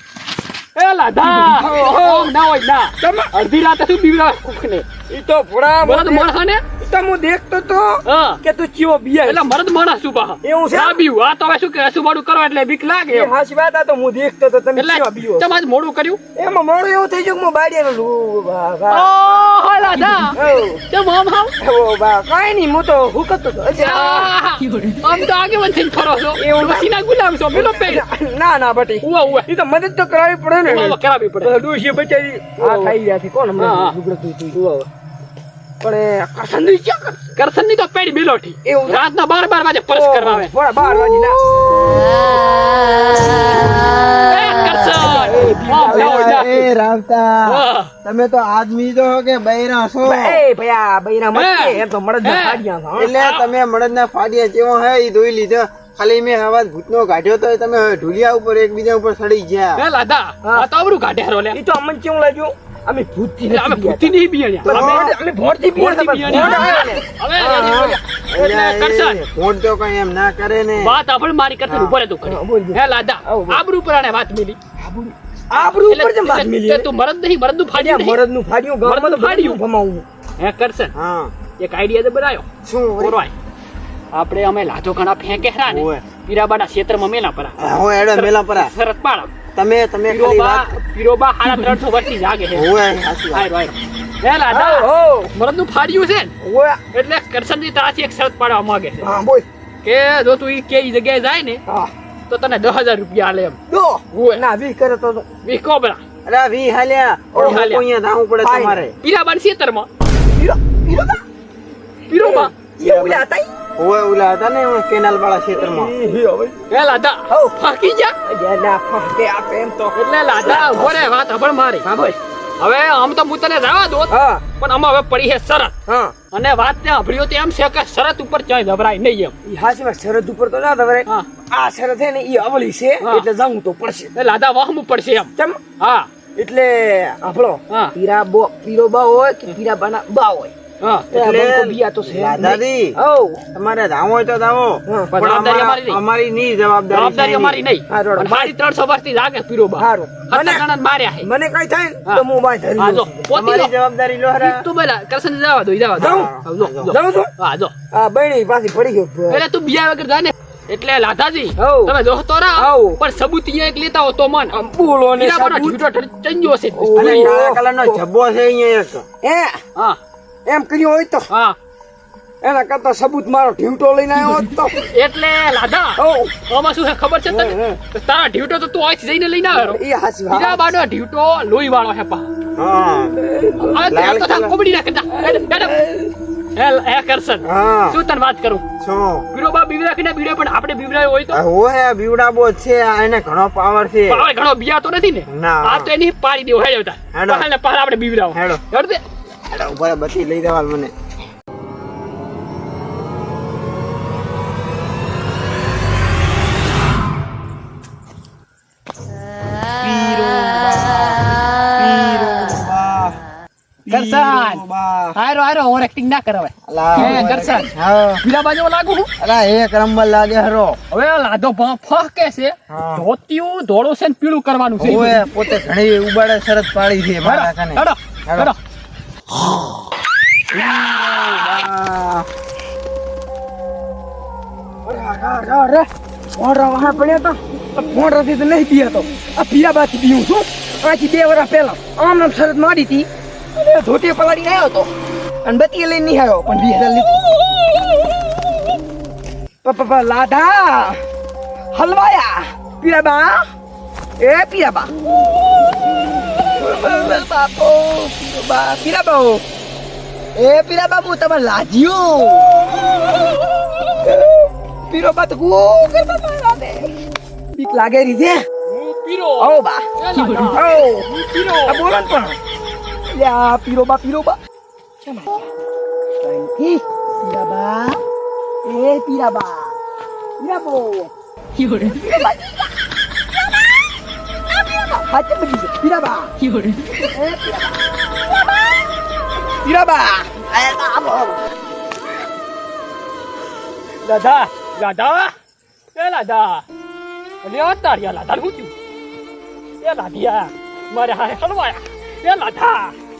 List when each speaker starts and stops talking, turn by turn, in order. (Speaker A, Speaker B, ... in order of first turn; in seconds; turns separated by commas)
Speaker A: 0.7-4.9, Speaker B: 1.2-2.3, Speaker B: 3.0-3.3, Speaker B: 5.1-9.5, Speaker A: 5.8-6.7, Speaker A: 8.0-8.4, Speaker A: 9.2-13.3, Speaker B: 10.4-11.0, Speaker B: 13.1-15.5, Speaker A: 14.7-16.2, Speaker B: 16.4-19.1, Speaker A: 18.9-21.5, Speaker B: 20.2-20.8, Speaker B: 21.6-24.3, Speaker A: 23.7-28.0, Speaker B: 26.3-27.0, Speaker B: 27.5-34.9, Speaker A: 29.0-29.4, Speaker A: 30.6-31.5, Speaker A: 32.6-33.0, Speaker A: 33.5-34.0, Speaker B: 35.8-37.2, Speaker A: 37.3-40.5, Speaker B: 38.6-39.0, Speaker B: 39.9-41.4, Speaker A: 44.2-46.7, Speaker B: 44.9-46.4, Speaker C: 45.9-50.4, Speaker A: 47.5-47.9, Speaker B: 50.0-53.1, Speaker A: 51.3-52.6, Speaker C: 53.0-59.8, Speaker A: 53.1-53.5, Speaker A: 59.8-61.6, Speaker B: 61.5-68.5, Speaker A: 63.5-65.1, Speaker C: 64.6-65.1, Speaker A: 65.7-69.2, Speaker C: 66.3-66.8, Speaker C: 68.3-71.0, Speaker A: 70.8-74.6, Speaker C: 71.7-72.0, Speaker B: 72.2-73.6, Speaker B: 74.8-76.9, Speaker A: 75.6-78.2, Speaker B: 77.7-80.0, Speaker A: 78.8-79.6, Speaker A: 80.4-80.9, Speaker C: 80.9-81.3, Speaker A: 81.5-82.5, Speaker C: 82.6-83.2, Speaker A: 83.0-83.3, Speaker A: 84.1-89.3, Speaker C: 85.7-86.0, Speaker C: 87.6-88.7, Speaker C: 89.5-90.7, Speaker A: 90.1-92.7, Speaker B: 91.4-91.8, Speaker C: 92.5-93.5, Speaker A: 93.3-96.3, Speaker B: 94.5-95.3, Speaker B: 96.4-96.8, Speaker A: 96.9-99.0, Speaker B: 99.0-99.5, Speaker A: 99.8-101.6, Speaker B: 101.7-101.9, Speaker A: 102.3-103.6, Speaker B: 103.7-105.2, Speaker A: 104.1-104.5, Speaker A: 105.4-106.0, Speaker C: 106.2-108.9, Speaker B: 107.3-107.6, Speaker A: 107.3-107.8, Speaker B: 108.4-108.8, Speaker A: 109.0-109.9, Speaker B: 110.4-111.2, Speaker A: 112.1-112.5, Speaker B: 112.1-113.5, Speaker C: 112.8-113.2, Speaker C: 113.8-115.9, Speaker B: 115.5-116.6, Speaker A: 116.7-118.1, Speaker B: 117.3-117.6, Speaker B: 118.2-121.0, Speaker A: 119.9-125.7, Speaker B: 121.8-122.1, Speaker B: 124.1-124.4, Speaker B: 125.9-126.1, Speaker A: 126.3-129.3, Speaker B: 129.4-134.1, Speaker A: 134.1-136.1, Speaker B: 136.4-140.5, Speaker A: 140.8-141.1, Speaker C: 141.1-142.9, Speaker B: 141.1-143.4, Speaker C: 143.5-147.6, Speaker B: 144.9-145.2, Speaker A: 145.1-146.0, Speaker A: 146.9-151.3, Speaker B: 147.9-148.5, Speaker B: 149.8-150.7, Speaker B: 151.2-153.3, Speaker A: 152.8-153.7, Speaker C: 153.3-154.6, Speaker A: 154.4-157.7, Speaker B: 155.9-156.3, Speaker C: 156.0-156.9, Speaker B: 156.8-157.3, Speaker B: 157.9-159.4, Speaker A: 159.3-164.6, Speaker B: 161.6-162.0, Speaker B: 162.6-163.0, Speaker B: 164.5-165.8, Speaker A: 165.1-167.3, Speaker B: 166.7-168.0, Speaker C: 166.9-169.0, Speaker B: 169.2-169.6, Speaker B: 170.4-171.3, Speaker A: 171.3-171.6, Speaker B: 172.4-174.9, Speaker A: 174.9-182.2, Speaker B: 176.0-176.3, Speaker B: 177.4-177.7, Speaker B: 179.5-180.7, Speaker C: 182.6-183.1, Speaker B: 183.2-184.0, Speaker A: 183.6-185.8, Speaker C: 183.8-184.5, Speaker B: 185.1-186.1, Speaker A: 186.5-188.7, Speaker C: 187.4-188.0, Speaker C: 188.8-189.2, Speaker A: 189.3-191.4, Speaker C: 191.3-194.2, Speaker A: 194.1-199.0, Speaker C: 195.3-195.9, Speaker C: 197.1-197.5, Speaker C: 198.3-198.6, Speaker C: 199.5-200.9, Speaker C: 209.8-213.2, Speaker C: 213.9-215.2, Speaker A: 213.9-219.1, Speaker C: 216.7-218.2, Speaker B: 217.0-217.6, Speaker C: 219.2-220.8, Speaker A: 220.9-225.2, Speaker C: 222.7-223.1, Speaker C: 224.8-228.5, Speaker A: 227.2-228.6, Speaker C: 230.5-232.3, Speaker B: 234.8-244.9, Speaker B: 245.4-247.2, Speaker B: 249.6-251.0, Speaker B: 251.7-253.4, Speaker B: 254.2-254.9, Speaker B: 256.5-259.4, Speaker B: 260.4-262.4, Speaker B: 263.9-266.9, Speaker B: 267.5-268.4, Speaker A: 268.6-271.9, Speaker B: 269.4-269.8, Speaker B: 270.4-272.4, Speaker B: 273.1-274.4, Speaker B: 275.0-275.5, Speaker B: 276.2-278.0, Speaker B: 278.6-279.7, Speaker B: 280.4-282.7, Speaker B: 283.4-283.7, Speaker B: 284.5-288.8, Speaker B: 289.6-291.4, Speaker A: 294.0-295.3, Speaker A: 295.9-296.6, Speaker A: 297.4-298.7, Speaker A: 299.8-302.9